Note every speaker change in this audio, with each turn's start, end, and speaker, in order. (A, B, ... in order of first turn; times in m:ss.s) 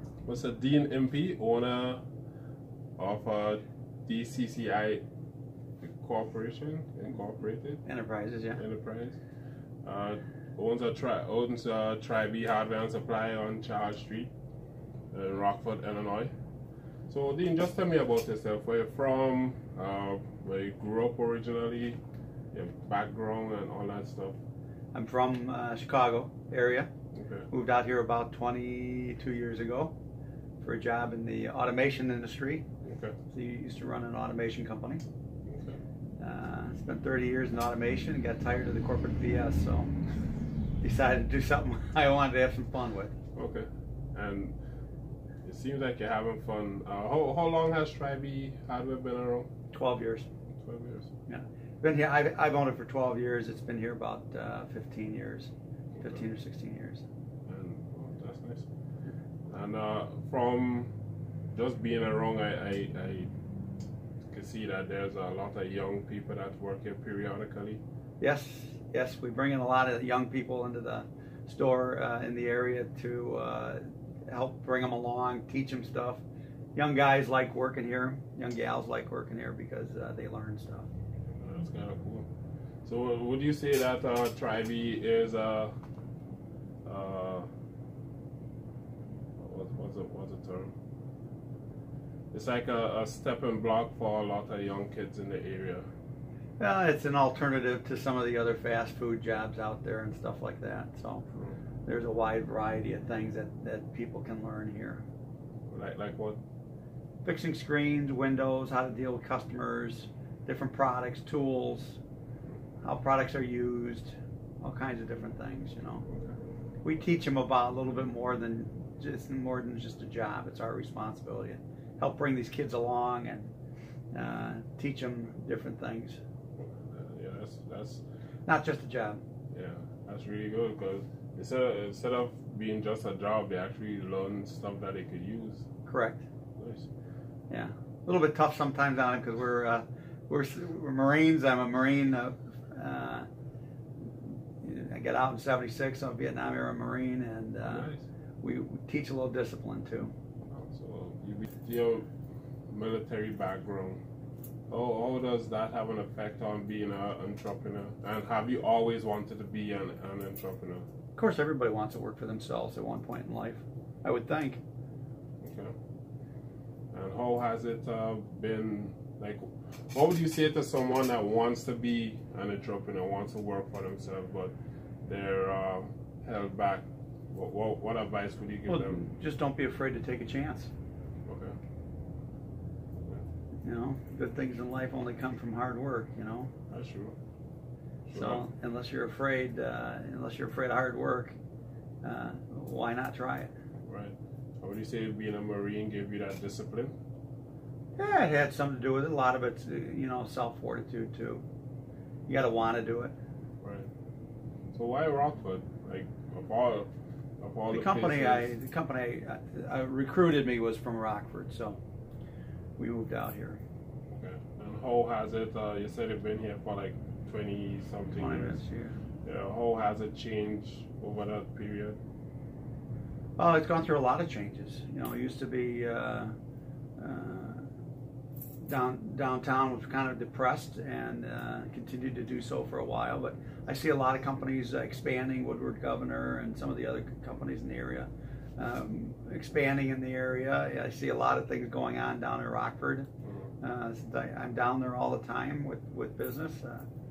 0:00.2-0:02.0 A
0:03.0-0:05.0 A
0:05.8-0:07.8 A
0:07.8-0:08.6 B
0:08.6-0:09.2 A
0:09.8-0:14.3 A
0:15.1-0:16.3 A
0:17.1-0:22.0 A
0:22.5-0:24.4 A
0:24.9-0:26.9 B
0:27.1-0:27.5 A
0:27.5-0:29.9 B
0:30.6-0:32.6 B
0:32.8-0:33.1 A
0:33.3-0:35.0 B
0:35.4-0:35.8 A
0:36.2-0:39.9 B
0:40.8-0:43.1 B
0:43.3-0:44.6 A
0:45.4-0:49.5 A
0:49.7-0:50.3 B
0:50.6-0:51.1 A
0:51.3-0:57.0 B
0:57.4-0:58.7 A
0:59.5-1:00.9 A
1:01.5-1:03.3 A
1:04.3-1:07.8 A
1:08.2-1:16.2 B
1:16.7-1:20.9 B
1:21.4-1:22.3 A
1:22.8-1:25.7 A
1:26.8-1:27.5 A
1:29.4-1:30.7 A
1:32.3-1:35.9 A
1:36.6-1:41.2 B
1:41.8-1:45.0 B
1:45.7-1:46.4 A
1:47.2-1:52.0 B
1:52.8-1:56.0 B
1:56.8-2:03.5 B
2:04.1-2:06.2 B
2:06.6-2:08.0 A
2:08.5-2:09.2 B
2:09.5-2:15.7 A
2:15.8-2:16.3 B
2:16.6-2:16.9 A
2:17.5-2:23.3 B
2:24.6-2:30.1 B
2:27.6-2:28.0 A
2:30.5-2:32.1 A
2:32.7-2:34.0 A
2:34.7-2:40.8 A
2:41.2-2:44.6 B
2:45.4-2:45.7 A
2:46.9-2:54.5 A
2:55.0-2:59.0 A
2:58.7-3:00.7 B
3:01.2-3:01.6 A
3:03.0-3:03.2 A
3:03.6-3:06.5 B
3:06.7-3:07.2 A
3:08.0-3:08.4 A
3:08.1-3:11.4 B
3:12.0-3:13.5 B
3:13.8-3:16.9 A
3:18.0-3:21.4 B
3:22.3-3:23.2 B
3:23.6-3:23.9 A
3:24.7-3:28.5 A
3:27.7-3:31.8 B
3:32.8-3:33.6 B
3:34.1-3:38.6 A
3:38.2-3:39.0 B
3:39.2-3:42.0 A
3:43.4-3:46.3 B
3:47.0-3:47.7 B
3:48.6-4:03.1 B
4:03.2-4:03.5 A
4:03.6-4:06.9 B